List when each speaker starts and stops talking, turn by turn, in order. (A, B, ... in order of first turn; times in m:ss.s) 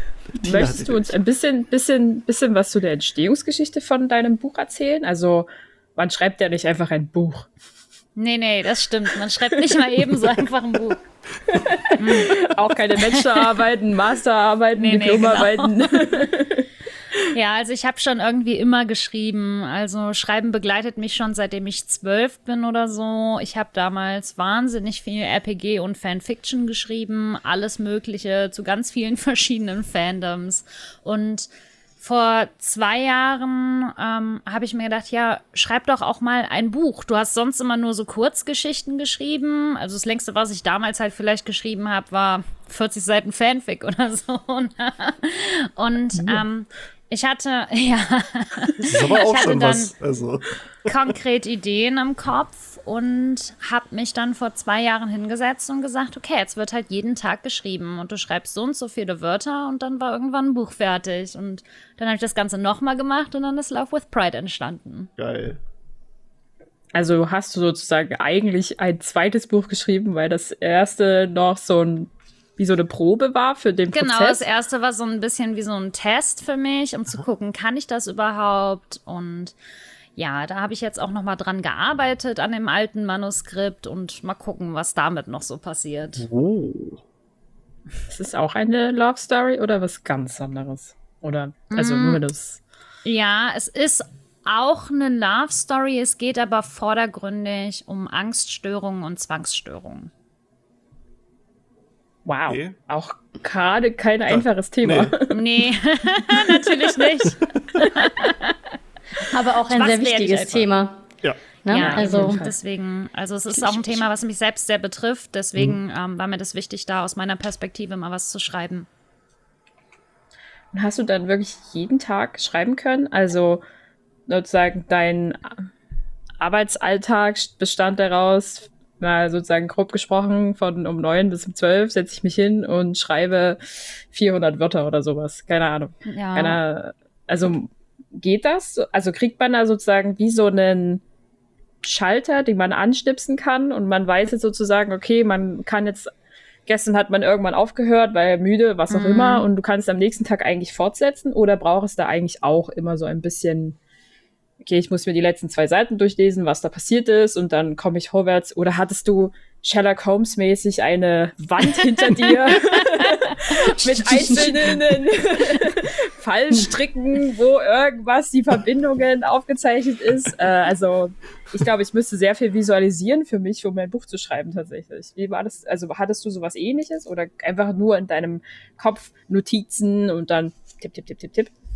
0:00.4-0:01.1 A
0:00.4-0:07.5 B
0:08.2-0:11.0 C
0:09.7-0:10.0 B
0:11.5-0:16.7 B
0:12.0-0:12.4 C
0:12.9-0:13.4 C
0:14.8-0:15.9 C
0:17.3-0:31.5 C
0:32.0-0:49.9 C
0:46.2-0:46.4 B
0:48.8-0:50.9 A
0:50.8-1:05.1 C
1:05.2-1:05.6 A
1:06.9-1:14.4 B
1:13.9-1:19.5 C
1:20.2-1:26.3 C
1:26.2-1:27.0 A
1:28.1-1:32.6 B
1:31.7-1:32.2 C
1:33.0-1:40.1 C
1:42.2-1:45.4 B
1:42.5-1:42.7 A
1:44.3-1:45.1 A
1:45.3-1:48.5 C
1:46.4-1:47.0 B
1:49.3-1:51.1 D
1:49.7-1:50.6 C
1:51.6-1:52.4 D
1:51.7-1:58.9 C
1:51.8-1:52.5 B
1:53.6-1:54.0 D
2:00.7-2:03.6 B
2:04.3-2:05.6 B
2:06.4-2:21.0 B
2:16.1-2:16.6 C
2:21.8-2:26.1 B
2:26.6-2:33.8 B
2:28.9-2:29.4 C
2:34.6-3:01.5 B
2:43.5-2:44.7 C
2:44.3-2:44.7 D